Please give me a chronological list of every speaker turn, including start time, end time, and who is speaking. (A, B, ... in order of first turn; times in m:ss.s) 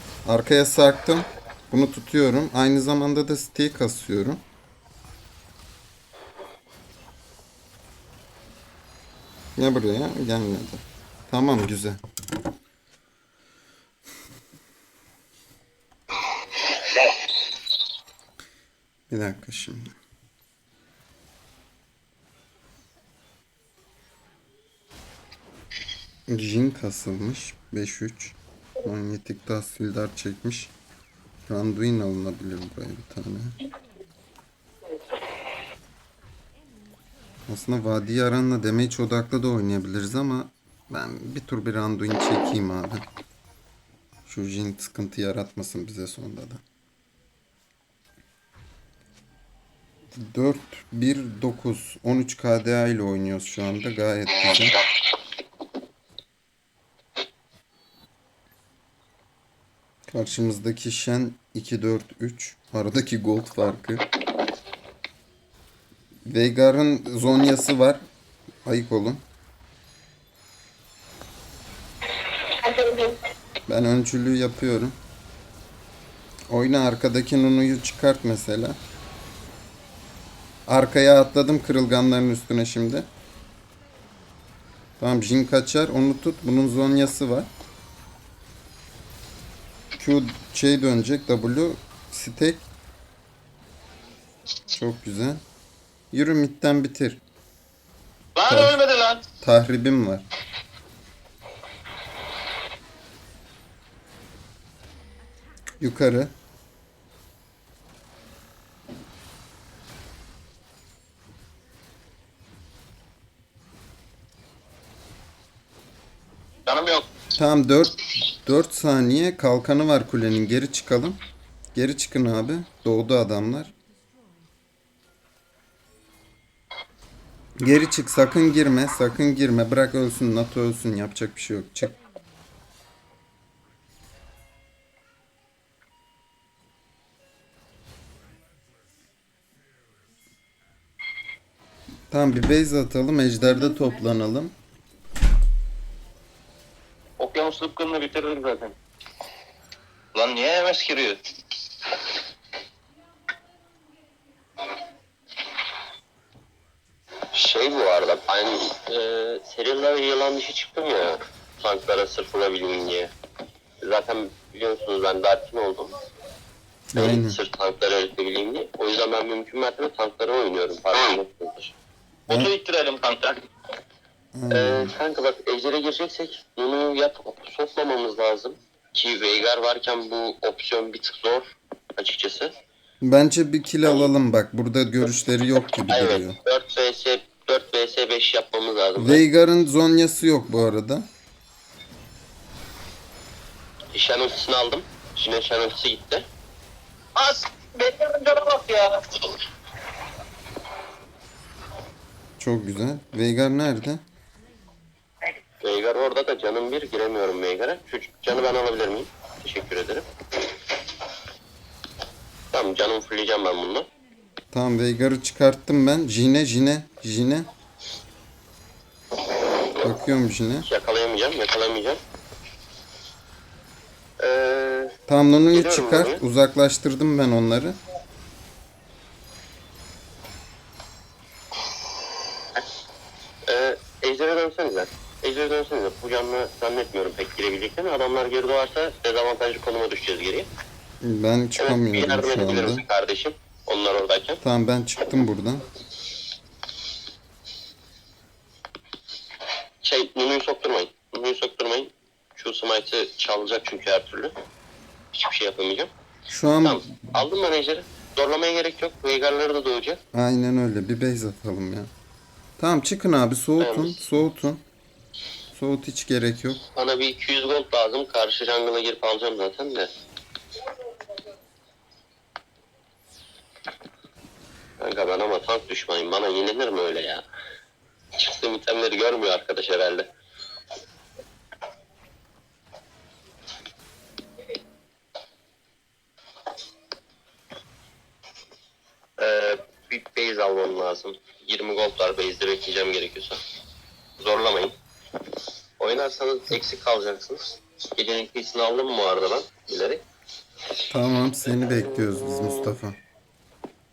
0:00.2-0:04.4 A
0:09.6-0:12.0 A
0:19.1-0:19.9 A
0:26.3-0:30.7 A
0:31.5-0:33.6 A
0:37.5-0:43.0 A
0:44.2-0:46.6 A
0:50.1-0:54.8 A
1:00.1-1:04.1 A
1:06.2-1:08.0 A
1:08.6-1:09.2 A
1:13.7-1:15.0 A
1:16.5-1:18.8 A
1:20.7-1:23.1 A
1:25.0-1:27.5 A
1:30.0-1:32.7 A
1:34.7-1:35.4 A
1:36.1-1:37.2 A
1:38.4-1:39.2 B
1:38.4-1:38.8 A
1:39.4-1:40.2 A
1:45.8-1:46.3 A
1:56.7-1:57.1 B
1:57.4-2:01.2 A
2:01.7-2:03.7 A
2:07.6-2:11.9 A
2:22.1-2:24.5 A
2:27.2-2:28.8 B
2:30.1-2:31.2 B
2:37.3-2:43.1 C
2:43.8-2:45.9 C
2:46.9-2:47.4 A
2:47.0-2:51.7 C
2:52.3-2:53.4 B
2:54.3-2:54.9 A
2:54.5-3:02.5 C
3:03.0-3:06.4 A
3:05.9-3:09.2 C
3:09.0-3:11.1 A
3:13.9-3:16.2 C
3:17.2-3:19.2 B
3:22.4-3:24.0 A
3:25.6-3:30.0 C
3:32.5-3:33.9 C
3:34.5-3:37.5 A
3:39.8-3:40.7 A
3:40.6-3:42.0 C
3:44.2-3:44.9 C
3:45.1-3:47.8 A
3:45.5-3:46.2 C
3:53.5-4:00.5 C
4:01.0-4:02.8 A
4:01.6-4:04.4 C
4:04.4-4:05.6 A
4:09.8-4:14.3 C
4:15.1-4:15.9 C
4:16.3-4:17.1 A
4:16.6-4:20.0 C
4:20.1-4:21.9 A
4:22.6-4:24.6 A
4:23.6-4:24.0 C
4:25.5-4:26.6 A
4:26.8-4:29.9 C
4:34.8-4:37.2 C
4:38.2-4:40.1 C
4:49.2-4:53.4 C
4:54.2-4:54.7 C
4:55.8-5:00.0 C
5:00.9-5:03.0 A